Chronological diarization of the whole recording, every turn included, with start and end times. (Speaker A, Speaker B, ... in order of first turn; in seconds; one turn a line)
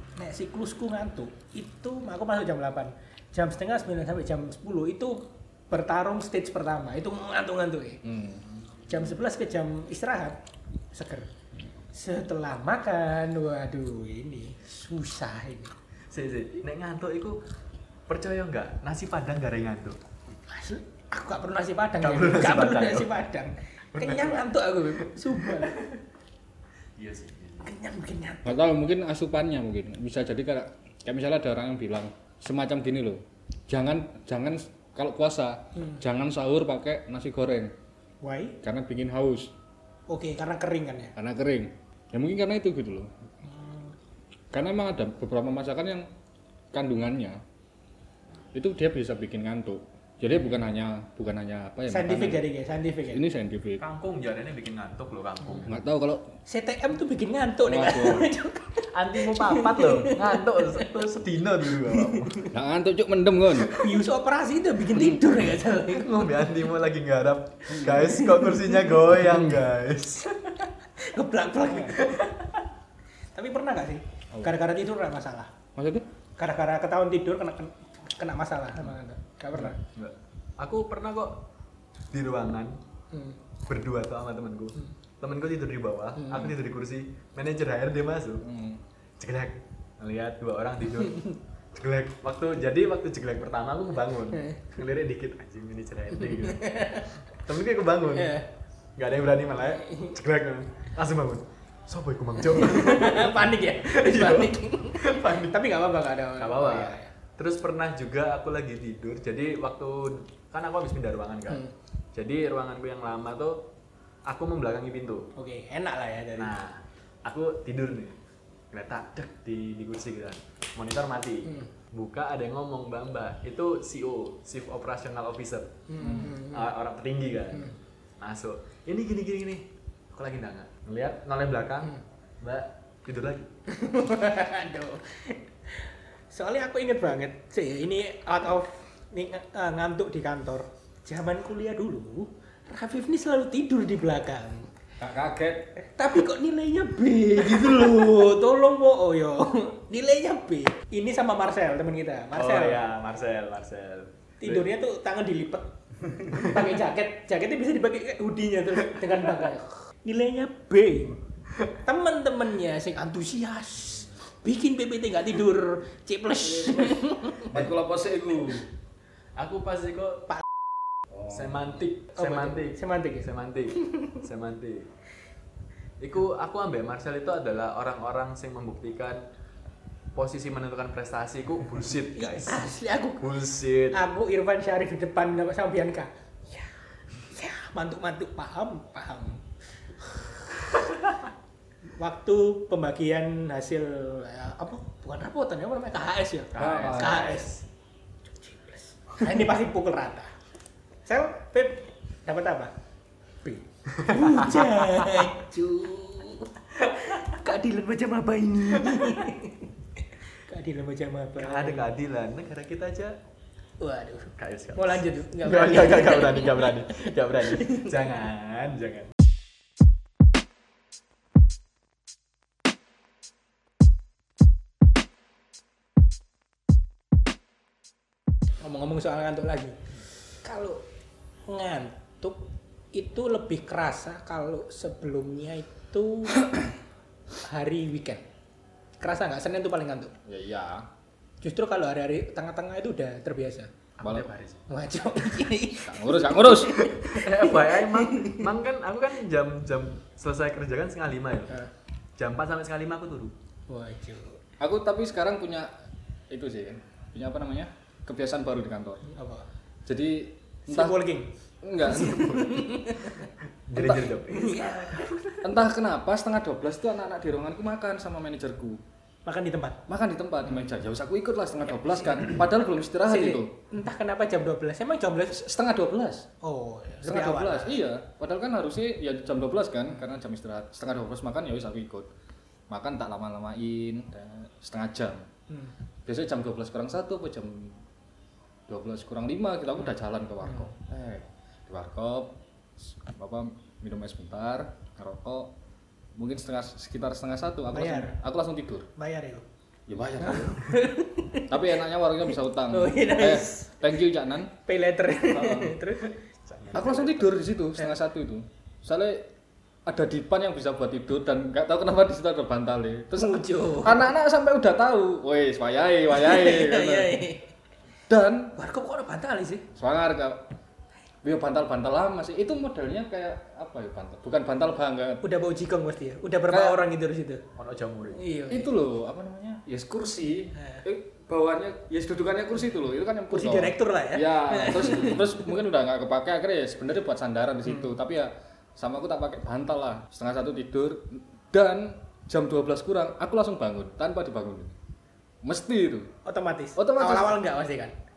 Speaker A: 0.2-8.0
Speaker B: 8.0-8.4
Speaker A: 8.9-10.4
Speaker A: 10.9-11.3
Speaker A: 11.9-15.7
Speaker C: 16.1-17.4
Speaker C: 18.1-20.0
Speaker A: 20.5-25.8
Speaker C: 22.0-23.1
Speaker C: 23.9-24.5
Speaker C: 25.0-26.0
Speaker C: 27.0-27.7
Speaker A: 27.6-28.6
Speaker B: 28.4-37.7
Speaker A: 35.8-36.0
Speaker A: 38.2-38.6
Speaker B: 38.6-39.5
Speaker A: 40.1-41.1
Speaker B: 41.1-43.1
Speaker A: 43.4-43.9
Speaker B: 44.5-46.1
Speaker B: 46.7-47.4
Speaker B: 48.5-52.4
Speaker A: 51.9-53.2
Speaker B: 53.1-53.8
Speaker C: 53.8-55.8
Speaker B: 55.6-56.3
Speaker A: 56.5-61.0
Speaker B: 57.6-58.3
Speaker C: 58.9-62.5
Speaker A: 61.8-62.5
Speaker B: 62.5-63.8
Speaker A: 63.7-66.3
Speaker B: 64.9-65.2
Speaker C: 65.8-70.6
Speaker B: 67.7-68.1
Speaker A: 67.8-68.9
Speaker A: 71.0-72.2
Speaker C: 71.9-72.6
Speaker A: 73.3-75.5
Speaker B: 75.8-76.1
Speaker A: 76.4-79.8
Speaker C: 79.8-81.4
Speaker C: 82.1-82.8
Speaker A: 83.1-83.4
Speaker C: 83.7-88.5
Speaker A: 86.2-86.5
Speaker B: 88.4-88.8
Speaker C: 89.2-96.8
Speaker A: 91.0-91.3
Speaker A: 94.3-94.6
Speaker A: 96.4-97.1
Speaker C: 97.3-98.4
Speaker A: 98.1-98.5
Speaker C: 99.0-105.6
Speaker A: 99.8-100.1
Speaker A: 102.5-107.1
Speaker C: 106.4-111.6
Speaker C: 112.1-113.7
Speaker C: 114.2-115.3
Speaker A: 115.3-116.6
Speaker C: 116.4-118.2
Speaker C: 118.7-125.8
Speaker A: 125.9-126.7
Speaker B: 126.0-126.4
Speaker C: 126.4-133.5
Speaker A: 133.7-144.7
Speaker B: 145.0-145.7
Speaker A: 145.8-152.8
Speaker C: 152.3-154.7
Speaker A: 154.4-161.2
Speaker A: 161.8-167.6
Speaker B: 166.4-168.7
Speaker C: 169.4-170.3
Speaker B: 171.1-171.6
Speaker C: 171.3-174.9
Speaker A: 172.2-173.3
Speaker A: 173.8-174.2
Speaker C: 176.0-179.2
Speaker C: 180.1-184.0
Speaker A: 182.1-183.3
Speaker A: 183.9-189.4
Speaker A: 190.0-190.7
Speaker A: 192.0-197.6
Speaker C: 196.5-197.6
Speaker B: 196.6-197.3
Speaker A: 198.3-200.3
Speaker A: 201.1-202.8
Speaker A: 203.4-209.7
Speaker C: 204.0-205.3
Speaker C: 206.9-207.2
Speaker C: 208.8-209.3
Speaker A: 210.3-211.9
Speaker C: 211.4-213.2
Speaker A: 213.8-217.9
Speaker C: 214.3-219.1
Speaker A: 228.6-229.8
Speaker A: 230.4-230.8
Speaker A: 231.5-236.5
Speaker A: 237.4-238.2
Speaker A: 239.0-240.1
Speaker B: 240.2-240.9
Speaker A: 241.4-243.7
Speaker C: 244.0-244.7
Speaker B: 244.0-244.3
Speaker A: 244.7-248.5
Speaker B: 245.8-246.8
Speaker C: 246.9-251.6
Speaker C: 252.2-253.3
Speaker A: 253.7-254.4
Speaker B: 254.6-255.7
Speaker B: 256.3-259.1
Speaker A: 259.1-259.5
Speaker B: 259.9-261.0
Speaker A: 260.6-263.3
Speaker B: 261.6-262.5
Speaker C: 263.7-265.4
Speaker B: 263.7-264.1
Speaker A: 264.3-265.2
Speaker B: 265.4-268.8
Speaker A: 269.2-269.8
Speaker B: 269.9-273.5
Speaker A: 273.0-275.4
Speaker B: 275.3-276.3
Speaker A: 276.4-277.8
Speaker B: 277.0-282.1
Speaker B: 282.7-285.3
Speaker B: 286.1-287.8
Speaker B: 288.7-295.5
Speaker A: 290.4-290.7
Speaker B: 296.1-298.9
Speaker A: 297.7-298.2
Speaker A: 299.0-299.4
Speaker B: 299.9-300.7
Speaker A: 300.2-301.5
Speaker B: 301.5-304.5
Speaker A: 302.7-303.7
Speaker A: 304.6-306.1
Speaker B: 305.1-305.8
Speaker C: 306.4-307.3
Speaker B: 306.7-309.3
Speaker B: 309.9-317.2
Speaker A: 313.1-314.1
Speaker A: 316.1-317.5
Speaker B: 318.1-318.5
Speaker A: 318.6-319.7
Speaker B: 319.8-320.5
Speaker B: 321.2-325.2
Speaker A: 325.2-327.4
Speaker B: 326.5-326.8
Speaker C: 327.6-328.2
Speaker A: 328.1-328.7
Speaker B: 328.5-344.8
Speaker A: 330.6-330.8
Speaker A: 333.3-335.4
Speaker C: 334.9-335.2
Speaker A: 337.7-337.9
Speaker B: 345.4-346.1
Speaker A: 346.2-347.9
Speaker B: 346.8-347.4